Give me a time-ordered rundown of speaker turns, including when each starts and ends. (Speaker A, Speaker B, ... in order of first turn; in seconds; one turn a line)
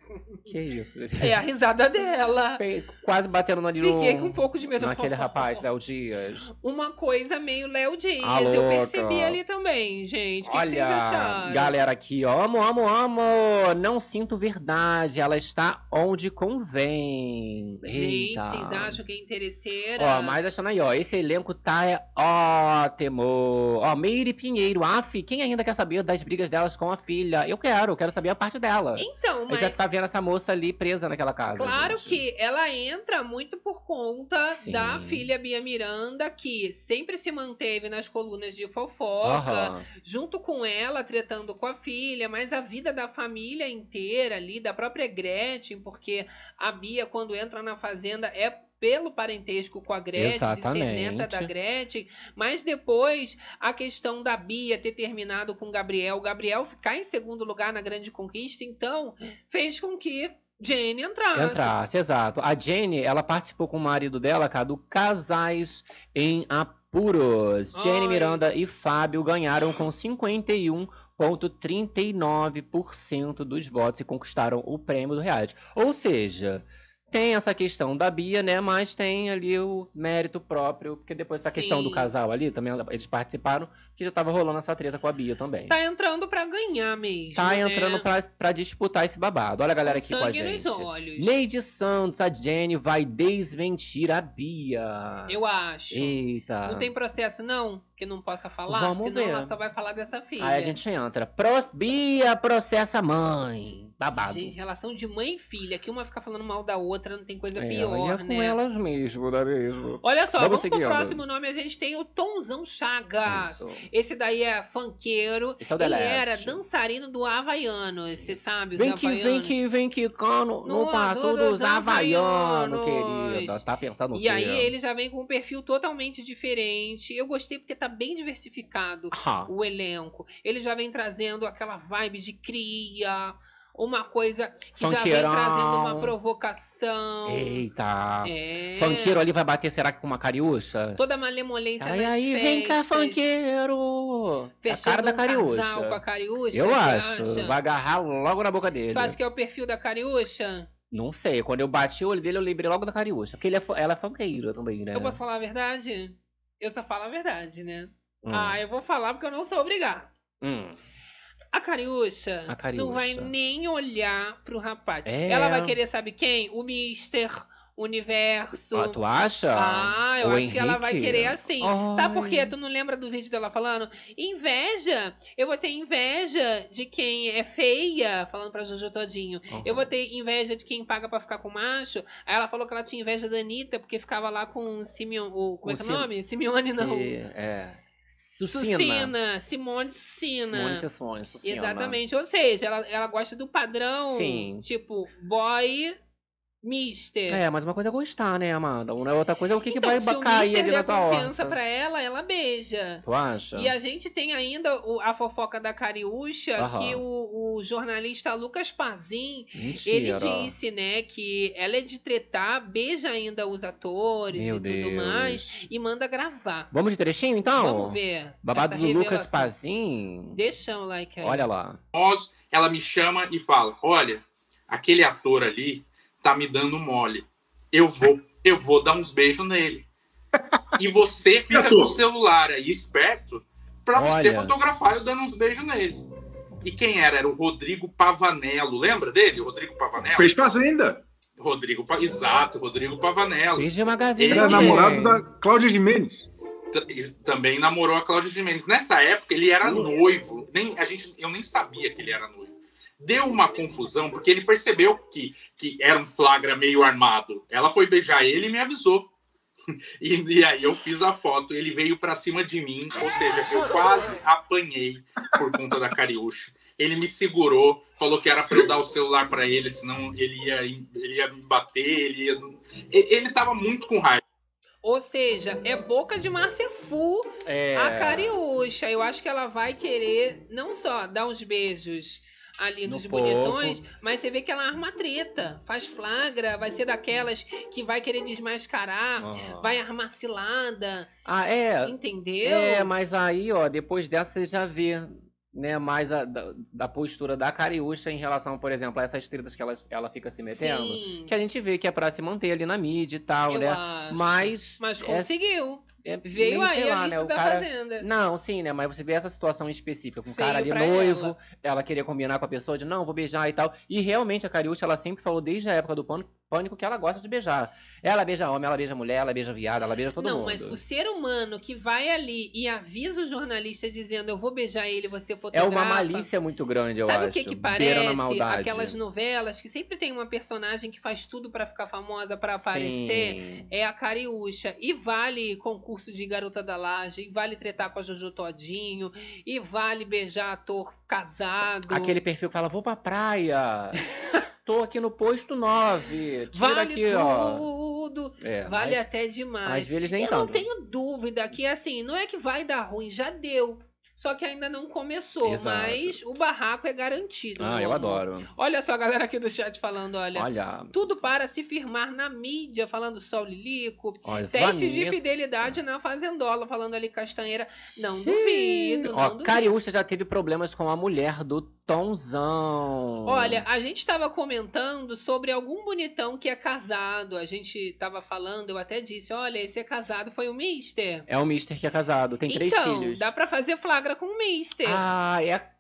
Speaker A: 0.5-1.4
Speaker B: 1.2-2.6
Speaker A: 2.6-6.5
Speaker B: 3.8-5.6
Speaker B: 6.6-11.7
Speaker A: 8.2-9.4
Speaker A: 10.4-19.0
Speaker B: 17.9-20.4
Speaker A: 20.0-32.2
Speaker B: 29.0-29.9
Speaker B: 31.6-61.7
Speaker A: 34.5-35.3
Speaker A: 39.2-39.9
Speaker A: 50.2-51.5
Speaker A: 61.4-85.8
Speaker B: 67.8-68.4
Speaker B: 81.4-82.1
Speaker B: 85.7-88.1
Speaker A: 87.4-95.4
Speaker B: 89.8-91.4
Speaker B: 95.3-100.8
Speaker A: 95.9-96.9
Speaker A: 98.7-99.5
Speaker A: 100.4-104.5
Speaker B: 104.2-108.6
Speaker A: 107.6-111.2
Speaker B: 110.0-119.6
Speaker A: 113.3-113.9
Speaker A: 115.6-116.6
Speaker A: 118.2-124.7
Speaker B: 120.7-137.6
Speaker A: 129.1-129.5
Speaker A: 134.8-136.1
Speaker A: 137.3-141.0
Speaker B: 138.2-139.2
Speaker B: 141.0-143.4
Speaker A: 141.8-149.2
Speaker B: 144.6-147.6
Speaker B: 148.9-150.7
Speaker A: 150.9-155.2
Speaker B: 154.9-160.1
Speaker A: 158.2-158.6
Speaker A: 160.4-160.8
Speaker B: 161.5-169.0
Speaker A: 162.5-163.3
Speaker A: 165.1-165.8
Speaker A: 168.7-172.5
Speaker B: 169.5-187.1
Speaker A: 179.5-179.9
Speaker A: 185.6-186.1
Speaker A: 186.7-189.2
Speaker B: 188.4-190.8
Speaker A: 190.5-192.0
Speaker B: 191.4-196.0
Speaker A: 194.0-194.7
Speaker B: 196.6-197.4
Speaker A: 197.3-201.6
Speaker B: 199.7-216.7
Speaker A: 203.0-203.7
Speaker A: 206.6-207.0
Speaker A: 209.5-210.5
Speaker A: 214.3-215.6
Speaker A: 216.7-220.4
Speaker B: 217.6-219.5
Speaker B: 220.3-221.5
Speaker A: 221.2-221.8
Speaker C: 221.9-229.8
Speaker C: 230.8-236.0
Speaker D: 231.5-232.0
Speaker A: 233.9-234.6
Speaker C: 236.6-240.4
Speaker D: 240.0-241.0
Speaker C: 241.4-244.9
Speaker A: 243.6-245.2
Speaker D: 244.3-246.3
Speaker C: 246.7-259.1
Speaker D: 249.6-249.9
Speaker C: 260.0-274.2
Speaker B: 274.8-291.1
Speaker A: 277.4-278.4
Speaker A: 282.9-283.8
Speaker A: 289.2-289.8
Speaker A: 291.2-305.3
Speaker B: 291.8-292.9
Speaker B: 300.4-301.4
Speaker B: 303.5-308.1
Speaker A: 306.0-320.8
Speaker B: 310.3-311.4
Speaker B: 320.2-326.3
Speaker A: 325.5-329.0
Speaker B: 327.0-342.2
Speaker A: 332.6-333.7
Speaker A: 341.9-344.0
Speaker A: 344.6-347.7
Speaker B: 346.5-369.7
Speaker A: 348.4-349.0
Speaker A: 349.6-350.7
Speaker A: 355.4-356.2
Speaker A: 357.6-358.5
Speaker A: 360.4-361.1
Speaker A: 364.2-365.8
Speaker A: 368.2-373.6
Speaker B: 373.2-381.3
Speaker A: 381.3-383.3
Speaker B: 382.5-385.0
Speaker A: 384.8-385.7